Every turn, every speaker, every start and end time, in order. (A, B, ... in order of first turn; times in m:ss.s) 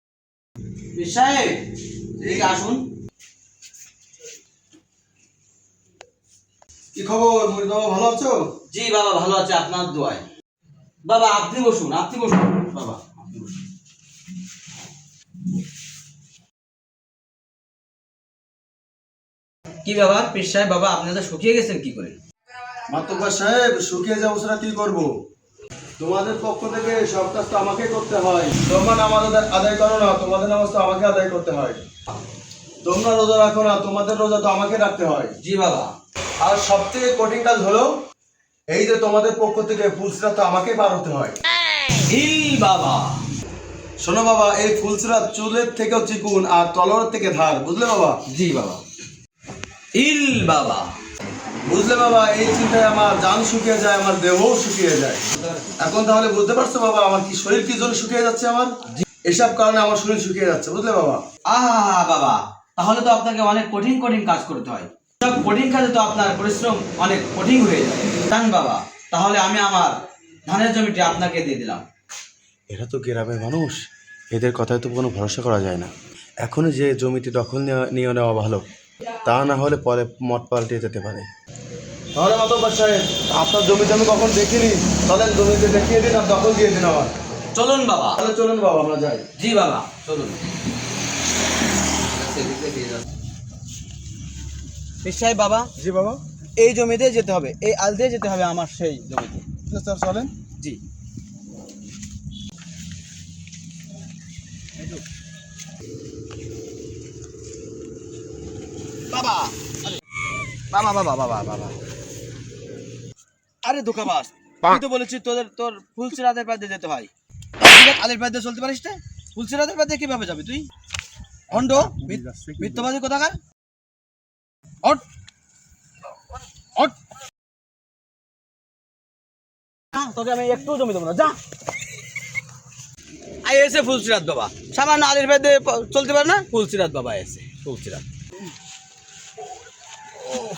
0:00.9-0:01.6 A
0:02.2-0:02.8 A
0:06.9-0:08.5 B
0:08.7-0:10.2 A
0:11.0-0:13.6 A
0:19.8-0:22.2 A
0:22.9-0:25.1 B
0:26.0-0:31.8 B
0:32.8-0:35.4 B
0:35.4-0:35.9 A
0:36.4-0:37.9 B
0:38.7-0:41.4 B
0:41.9-0:43.2 A
0:44.0-0:48.2 B
0:48.3-0:48.8 A
0:49.9-0:51.0 A
0:51.6-0:55.2 B
0:55.3-0:55.8 A
0:55.8-1:01.2 B
1:01.4-1:11.8 A
1:12.7-1:18.6 B
1:19.2-1:21.3 B
1:22.2-1:27.1 B
1:27.5-1:28.2 A
1:28.2-1:29.3 B
1:29.3-1:30.4 A
1:32.0-1:33.1 A
1:35.0-1:35.7 A
1:35.8-1:36.2 B
1:36.6-1:39.5 A
1:39.7-1:40.3 B
1:49.1-1:50.0 A
1:50.7-1:51.8 A
1:53.6-1:57.1 A
1:57.6-2:00.7 A
2:01.5-2:03.4 A
2:02.0-2:02.6 B
2:09.9-2:11.4 A
2:13.4-2:18.0 A